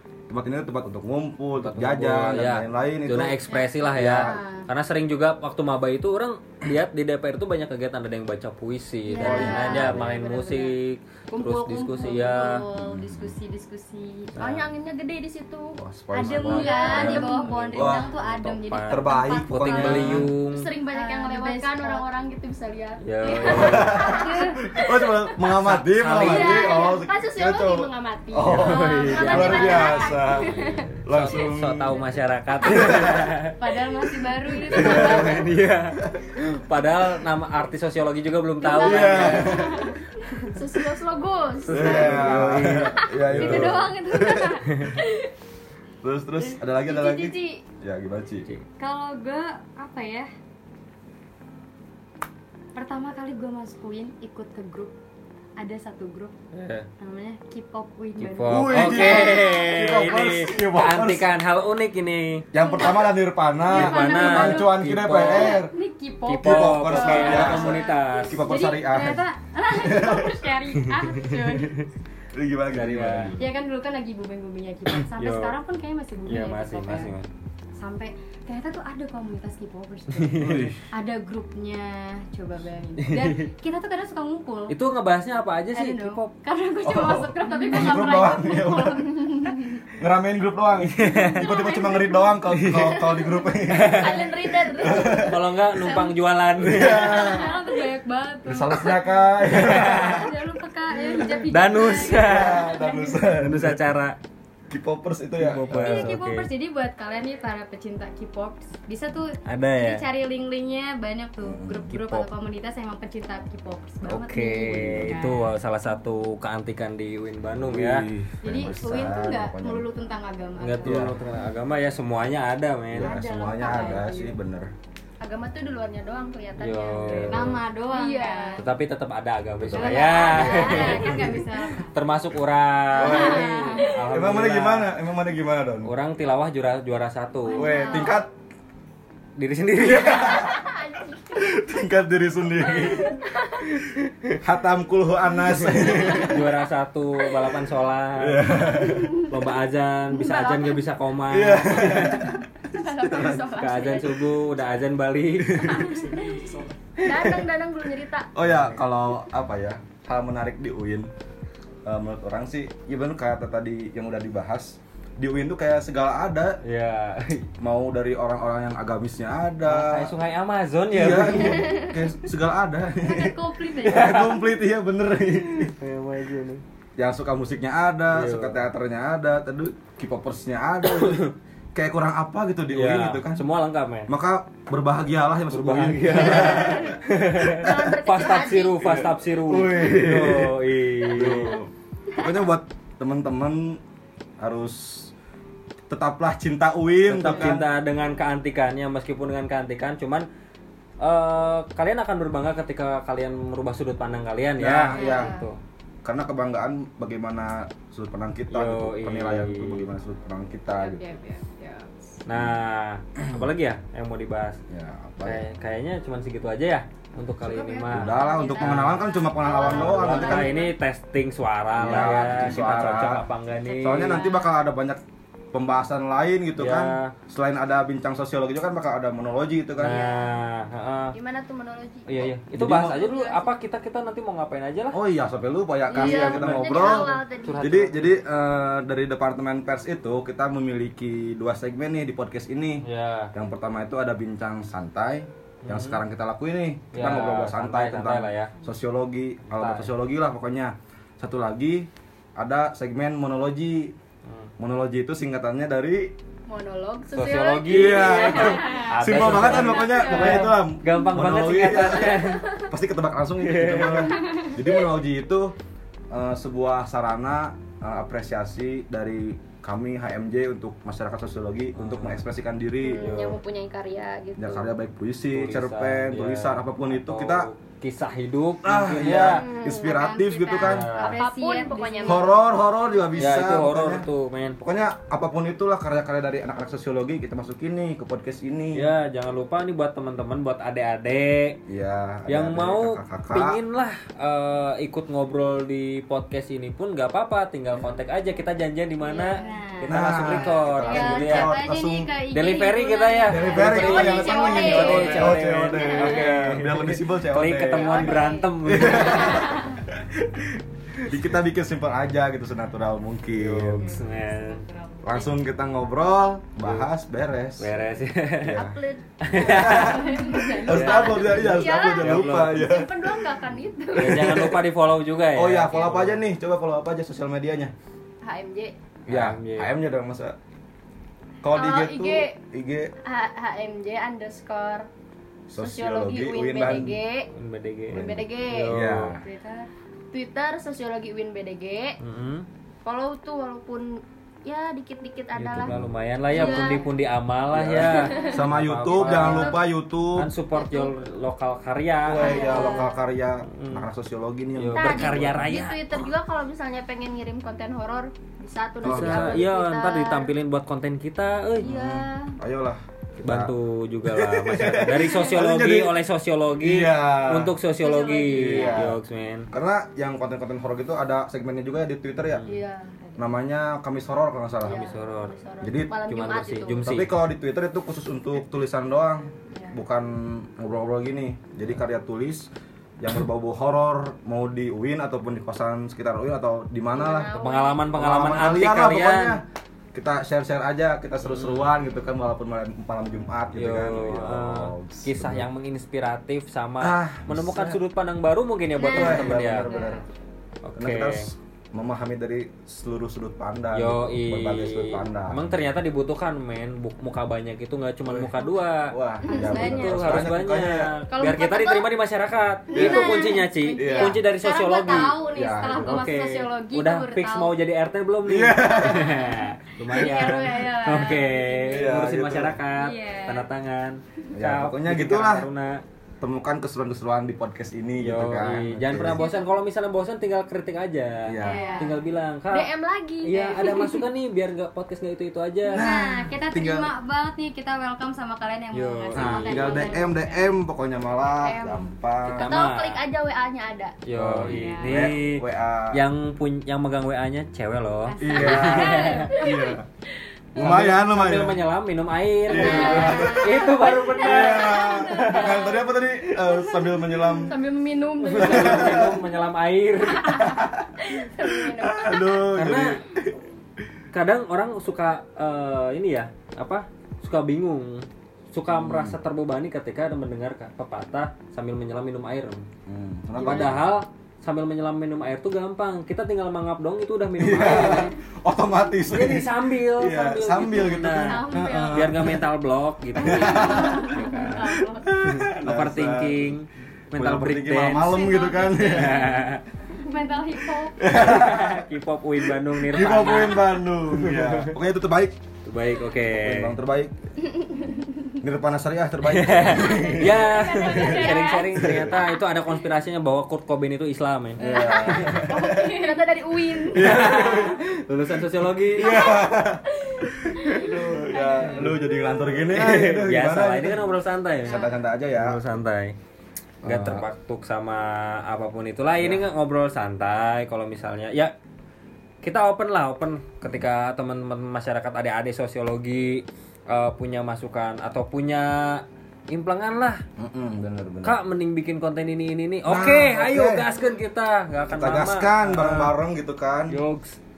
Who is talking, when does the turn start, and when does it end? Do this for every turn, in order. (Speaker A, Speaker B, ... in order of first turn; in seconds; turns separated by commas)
Speaker A: 0.3-4.4, Speaker B: 1.6-12.6, Speaker C: 3.6-4.7, Speaker C: 9.1-10.8, Speaker D: 9.2-9.9, Speaker A: 9.2-10.1, Speaker D: 11.3-12.6, Speaker C: 12.0-14.3, Speaker A: 12.8-13.4, Speaker B: 14.4-14.7, Speaker D: 14.4-17.9, Speaker A: 15.8-18.1, Speaker C: 16.2-20.3, Speaker B: 16.9-20.7, Speaker A: 18.9-20.3, Speaker D: 20.4-25.2, Speaker C: 20.9-22.1, Speaker B: 23.0-24.0, Speaker C: 23.2-24.6, Speaker A: 23.4-32.0, Speaker B: 25.6-26.8, Speaker D: 26.2-30.9, Speaker B: 28.5-33.6, Speaker C: 28.6-30.2, Speaker A: 32.6-33.3, Speaker C: 33.6-35.5, Speaker A: 34.7-35.5, Speaker B: 34.7-39.7, Speaker D: 38.6-45.3, Speaker C: 38.7-39.8, Speaker A: 38.8-39.9, Speaker B: 41.6-43.9, Speaker A: 41.7-44.6, Speaker A: 46.0-48.5, Speaker D: 46.4-47.6, Speaker C: 48.8-50.3, Speaker C: 52.8-54.9, Speaker C: 55.6-56.3, Speaker B: 56.5-56.9, Speaker C: 57.0-59.8, Speaker B: 58.2-62.5, Speaker A: 58.5-61.3, Speaker A: 62.5-65.7, Speaker C: 62.6-63.1, Speaker C: 63.6-71.8, Speaker B: 63.7-65.6, Speaker B: 66.3-68.4, Speaker A: 66.4-70.5, Speaker A: 72.3-73.5, Speaker B: 72.7-73.4, Speaker C: 73.4-77.1, Speaker B: 75.2-75.5, Speaker B: 76.3-77.3, Speaker C: 77.8-84.8, Speaker B: 80.1-80.8, Speaker A: 80.4-80.8, Speaker B: 83.0-83.5, Speaker B: 84.7-86.3, Speaker C: 85.7-89.5, Speaker A: 86.8-89.0, Speaker D: 87.5-88.2, Speaker D: 89.0-89.7, Speaker A: 90.0-95.5, Speaker B: 90.9-91.5, Speaker C: 91.4-92.3, Speaker B: 92.5-93.0, Speaker B: 93.7-94.3, Speaker D: 93.9-96.1, Speaker B: 95.2-97.2, Speaker A: 96.6-97.5, Speaker C: 96.7-99.1, Speaker D: 97.2-97.8, Speaker A: 98.5-100.4, Speaker B: 99.5-100.3, Speaker C: 99.6-103.2, Speaker B: 101.5-102.7, Speaker A: 101.8-103.8, Speaker B: 103.3-104.2, Speaker A: 104.7-106.1, Speaker B: 105.4-106.5, Speaker C: 105.7-115.5, Speaker B: 109.5-110.0, Speaker A: 111.4-111.9, Speaker B: 111.9-112.3, Speaker B: 114.0-118.1, Speaker A: 114.9-115.2, Speaker A: 117.6-119.8, Speaker C: 118.4-121.2, Speaker B: 120.6-123.2, Speaker A: 120.8-121.2, Speaker A: 122.9-124.7, Speaker C: 123.0-124.3, Speaker D: 125.2-127.3, Speaker B: 126.6-127.6, Speaker A: 127.0-127.5, Speaker C: 127.3-128.6, Speaker D: 127.9-128.7, Speaker B: 128.6-131.3, Speaker A: 129.6-131.4, Speaker C: 129.7-131.9, Speaker D: 129.8-131.5, Speaker B: 131.9-134.9, Speaker A: 133.0-135.9, Speaker C: 133.0-133.9, Speaker D: 133.1-133.9, Speaker B: 135.8-137.8, Speaker D: 137.5-138.2, Speaker A: 137.6-138.3, Speaker C: 137.7-138.1, Speaker B: 139.4-140.5, Speaker A: 139.8-140.6, Speaker D: 140.1-141.5, Speaker A: 141.3-143.2, Speaker D: 142.7-143.7, Speaker A: 144.3-146.4, Speaker D: 145.8-146.4, Speaker B: 145.8-148.6, Speaker A: 148.2-149.2, Speaker D: 148.8-149.3, Speaker B: 149.3-152.4, Speaker D: 150.1-150.9, Speaker A: 151.3-153.4, Speaker D: 151.9-154.2, Speaker B: 153.5-156.0, Speaker A: 155.4-156.3, Speaker D: 155.9-156.5, Speaker A: 157.0-157.5, Speaker D: 157.0-158.3, Speaker A: 158.3-161.1, Speaker B: 158.5-158.8, Speaker A: 161.8-166.6, Speaker B: 166.6-167.4, Speaker A: 167.5-170.1, Speaker B: 169.7-171.8, Speaker A: 170.9-175.7, Speaker D: 171.6-171.9, Speaker C: 173.0-174.3, Speaker B: 173.8-174.4, Speaker B: 175.8-176.6, Speaker A: 177.0-183.4, Speaker B: 178.1-178.6, Speaker B: 180.9-181.3, Speaker B: 182.7-184.1, Speaker A: 184.1-187.7, Speaker B: 185.5-191.6, Speaker D: 186.3-189.1, Speaker A: 188.8-193.8, Speaker D: 191.2-191.4, Speaker A: 194.4-195.1, Speaker A: 195.9-197.7, Speaker B: 197.1-200.3, Speaker B: 201.0-205.6, Speaker A: 204.6-205.4, Speaker D: 204.9-205.4, Speaker A: 206.0-211.0, Speaker B: 208.5-209.9, Speaker C: 210.8-211.4, Speaker D: 210.9-211.8, Speaker B: 212.3-214.6, Speaker A: 214.7-215.5, Speaker B: 215.2-219.0, Speaker D: 217.4-220.7, Speaker A: 217.9-220.6, Speaker C: 218.1-218.7, Speaker C: 219.4-220.4, Speaker B: 219.7-224.3, Speaker A: 221.8-223.2, Speaker A: 223.8-225.0, Speaker C: 223.9-224.3, Speaker D: 224.0-224.4, Speaker A: 225.5-230.0, Speaker B: 226.6-227.1, Speaker B: 229.8-231.2, Speaker D: 229.8-230.4, Speaker D: 231.1-232.1, Speaker B: 232.1-235.0, Speaker A: 232.4-233.0, Speaker D: 232.7-233.5, Speaker A: 234.9-253.9, Speaker D: 235.9-237.8, Speaker B: 235.9-238.1, Speaker B: 242.8-243.3, Speaker B: 245.6-246.0, Speaker B: 246.9-248.5, Speaker B: 249.5-249.9, Speaker B: 254.2-254.5, Speaker A: 254.6-256.1, Speaker D: 256.5-260.5, Speaker B: 257.1-262.4, Speaker A: 257.6-265.5, Speaker D: 261.9-262.7, Speaker B: 263.4-264.2, Speaker A: 266.1-273.2, Speaker B: 271.8-272.2, Speaker D: 272.8-274.7, Speaker B: 273.0-273.4, Speaker A: 274.4-277.5, Speaker B: 275.3-279.4, Speaker A: 278.6-280.9, Speaker D: 278.9-280.0, Speaker C: 279.6-282.4, Speaker B: 280.6-281.2, Speaker D: 281.0-282.3, Speaker A: 282.0-284.1, Speaker B: 283.2-284.6, Speaker A: 284.6-288.9, Speaker B: 288.7-291.6, Speaker A: 291.7-293.6, Speaker B: 292.3-301.6, Speaker C: 299.1-300.0, Speaker A: 299.9-302.1, Speaker C: 300.8-305.1, Speaker B: 302.3-309.6, Speaker A: 303.3-314.0, Speaker D: 303.6-306.3, Speaker D: 307.7-309.8, Speaker C: 308.0-309.3, Speaker B: 313.3-314.6, Speaker C: 313.9-315.3, Speaker A: 315.0-317.7, Speaker B: 316.6-316.9, Speaker B: 317.6-318.6, Speaker A: 318.4-318.8, Speaker D: 318.5-324.5, Speaker B: 319.2-322.7, Speaker A: 319.4-323.3, Speaker C: 319.7-320.9, Speaker B: 324.0-326.2, Speaker A: 324.0-324.6, Speaker A: 325.3-327.7, Speaker D: 325.7-326.0, Speaker D: 328.2-328.8, Speaker B: 329.1-329.7, Speaker A: 329.1-330.4, Speaker A: 331.4-332.9, Speaker D: 331.5-332.4, Speaker D: 333.0-334.9, Speaker A: 335.5-337.0, Speaker D: 335.6-337.3, Speaker B: 337.3-339.2, Speaker D: 337.9-338.9, Speaker A: 337.9-339.2, Speaker C: 339.2-339.7, Speaker D: 340.1-342.0, Speaker B: 342.0-342.5, Speaker D: 342.9-345.7, Speaker B: 345.4-349.6, Speaker A: 345.6-345.9, Speaker D: 346.3-346.9, Speaker A: 347.5-350.3, Speaker D: 347.8-349.6, Speaker B: 350.2-352.8, Speaker D: 350.5-350.9, Speaker A: 352.0-355.5, Speaker D: 352.2-353.0, Speaker B: 353.4-353.9, Speaker B: 354.6-356.1, Speaker D: 354.7-360.3, Speaker A: 358.8-359.4, Speaker B: 358.8-362.0, Speaker D: 361.6-362.4, Speaker A: 361.6-363.5, Speaker B: 363.2-369.5, Speaker A: 364.0-365.9, Speaker D: 365.0-365.3, Speaker A: 366.6-367.5, Speaker D: 367.8-368.9, Speaker A: 368.4-369.0, Speaker A: 369.5-372.4, Speaker B: 372.2-372.6, Speaker D: 372.5-373.0, Speaker A: 373.2-374.9, Speaker D: 374.6-376.8, Speaker B: 374.6-375.4, Speaker A: 375.6-376.0, Speaker B: 376.1-377.1, Speaker A: 376.8-382.5, Speaker A: 383.0-387.3, Speaker D: 386.9-387.9, Speaker B: 387.3-389.4, Speaker A: 387.9-389.4, Speaker A: 389.9-395.5, Speaker B: 391.2-391.7, Speaker B: 393.6-399.7, Speaker A: 396.8-397.8, Speaker D: 398.8-400.0, Speaker A: 398.8-400.1, Speaker C: 398.9-400.0, Speaker B: 400.6-401.3, Speaker A: 400.8-405.5, Speaker B: 403.7-425.8, Speaker A: 408.1-410.9, Speaker D: 409.2-410.3, Speaker D: 411.1-411.9, Speaker D: 412.7-413.4, Speaker C: 412.8-417.6, Speaker A: 413.8-414.2, Speaker A: 415.3-416.1, Speaker A: 418.3-419.2, Speaker D: 419.9-421.6, Speaker C: 420.1-421.8, Speaker A: 421.7-422.6, Speaker C: 422.7-423.5, Speaker A: 424.3-425.5, Speaker A: 426.2-429.2, Speaker B: 428.0-432.7, Speaker D: 429.1-429.5, Speaker A: 431.3-431.7, Speaker C: 431.4-432.0, Speaker D: 431.4-431.9, Speaker D: 432.5-434.1, Speaker B: 433.2-435.9, Speaker C: 435.7-440.5, Speaker A: 435.7-436.9, Speaker B: 438.7-439.9, Speaker A: 439.1-442.5, Speaker D: 441.4-441.9, Speaker B: 442.3-443.0, Speaker D: 442.4-444.0, Speaker B: 444.1-449.3, Speaker A: 444.1-446.0, Speaker C: 444.5-445.1, Speaker C: 448.1-449.7, Speaker A: 448.2-449.9, Speaker D: 448.4-449.8, Speaker A: 450.6-451.6, Speaker B: 450.6-455.8, Speaker A: 452.5-457.6, Speaker D: 452.5-459.2, Speaker C: 452.5-453.4, Speaker B: 458.2-460.6, Speaker A: 458.4-459.2, Speaker D: 460.3-462.4, Speaker A: 460.4-460.9, Speaker A: 461.4-463.3, Speaker B: 462.5-463.0, Speaker B: 464.1-472.7, Speaker A: 468.7-469.2, Speaker A: 472.9-473.9, Speaker B: 473.4-478.1, Speaker D: 473.5-473.7, Speaker A: 477.4-482.5, Speaker B: 479.1-484.6, Speaker C: 481.1-482.1, Speaker D: 481.4-482.0, Speaker A: 483.1-486.6, Speaker C: 483.2-485.0, Speaker B: 485.2-489.6, Speaker A: 487.1-489.3, Speaker C: 488.2-491.1, Speaker D: 488.8-489.1, Speaker A: 491.0-491.9, Speaker B: 491.1-494.7, Speaker A: 492.4-495.4, Speaker B: 495.6-496.8, Speaker A: 496.4-497.1, Speaker D: 497.6-498.0, Speaker A: 498.4-500.6, Speaker B: 499.2-505.3, Speaker C: 499.9-501.7, Speaker D: 500.7-501.7, Speaker A: 501.8-502.2, Speaker A: 504.6-506.0, Speaker D: 504.6-507.4, Speaker C: 504.6-506.3, Speaker A: 506.9-507.9, Speaker B: 506.9-509.3, Speaker A: 508.8-514.0, Speaker D: 509.0-509.5, Speaker D: 510.1-511.8, Speaker B: 511.6-516.1, Speaker A: 514.6-515.6, Speaker D: 514.6-515.0, Speaker A: 516.8-517.2, Speaker B: 516.8-521.5, Speaker A: 519.1-519.4, Speaker B: 522.4-530.2, Speaker A: 530.4-531.4, Speaker B: 531.2-536.1, Speaker A: 532.9-533.9, Speaker A: 534.9-537.0, Speaker B: 536.9-537.4